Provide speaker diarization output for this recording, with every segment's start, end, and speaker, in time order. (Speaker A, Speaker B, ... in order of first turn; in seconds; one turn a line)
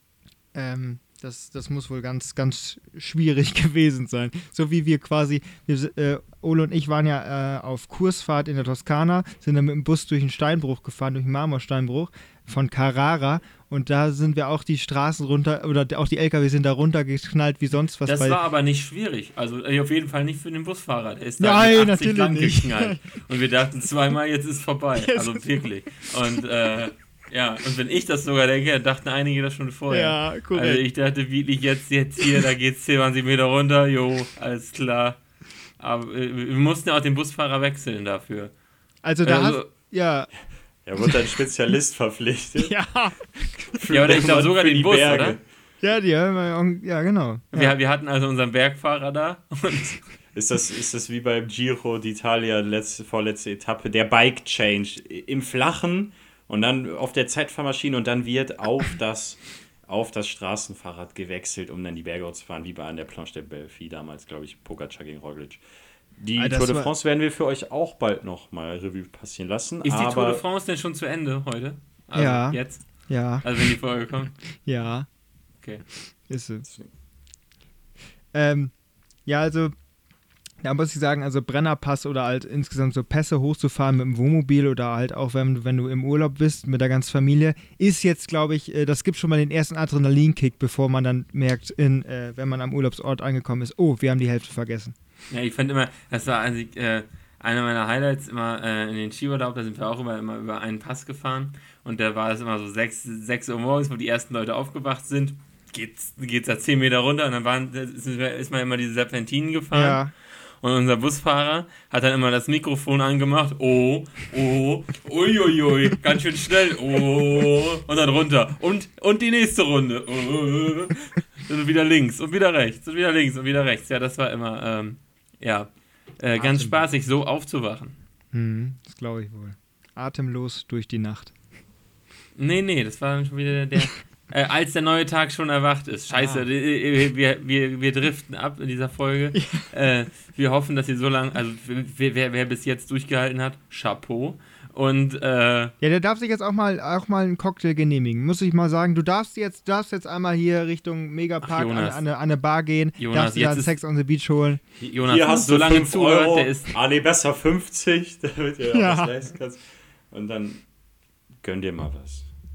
Speaker A: 0.5-18.4
Speaker B: 18.1-35.2
Speaker A: 21.4-23.0
Speaker A: 25.0-25.7
Speaker A: 29.9-30.8
Speaker B: 35.8-38.5
Speaker A: 39.0-40.3
Speaker B: 39.2-39.7
Speaker C: 40.8-42.8
Speaker A: 42.6-43.8
Speaker C: 43.7-45.4
Speaker B: 43.9-45.4
Speaker A: 45.8-47.7
Speaker B: 47.5-50.0
Speaker C: 50.3-65.6
Speaker C: 66.2-70.4
Speaker A: 66.4-66.9
Speaker B: 69.8-72.9
Speaker A: 72.1-73.7
Speaker B: 73.4-74.3
Speaker A: 74.6-75.1
Speaker A: 76.3-76.7
Speaker A: 78.3-78.7
Speaker A: 79.2-79.7
Speaker A: 80.6-94.9
Speaker B: 95.3-110.0
Speaker A: 109.7-110.1
Speaker B: 110.6-128.0
Speaker A: 126.3-126.8
Speaker A: 128.3-131.3
Speaker B: 132.4-145.7
Speaker A: 136.1-136.4
Speaker A: 139.3-139.6
Speaker A: 145.8-154.6
Speaker B: 151.4-152.0
Speaker B: 153.0-153.7
Speaker B: 154.8-156.7
Speaker C: 154.9-159.6
Speaker A: 158.7-159.1
Speaker C: 160.1-160.6
Speaker C: 161.4-162.3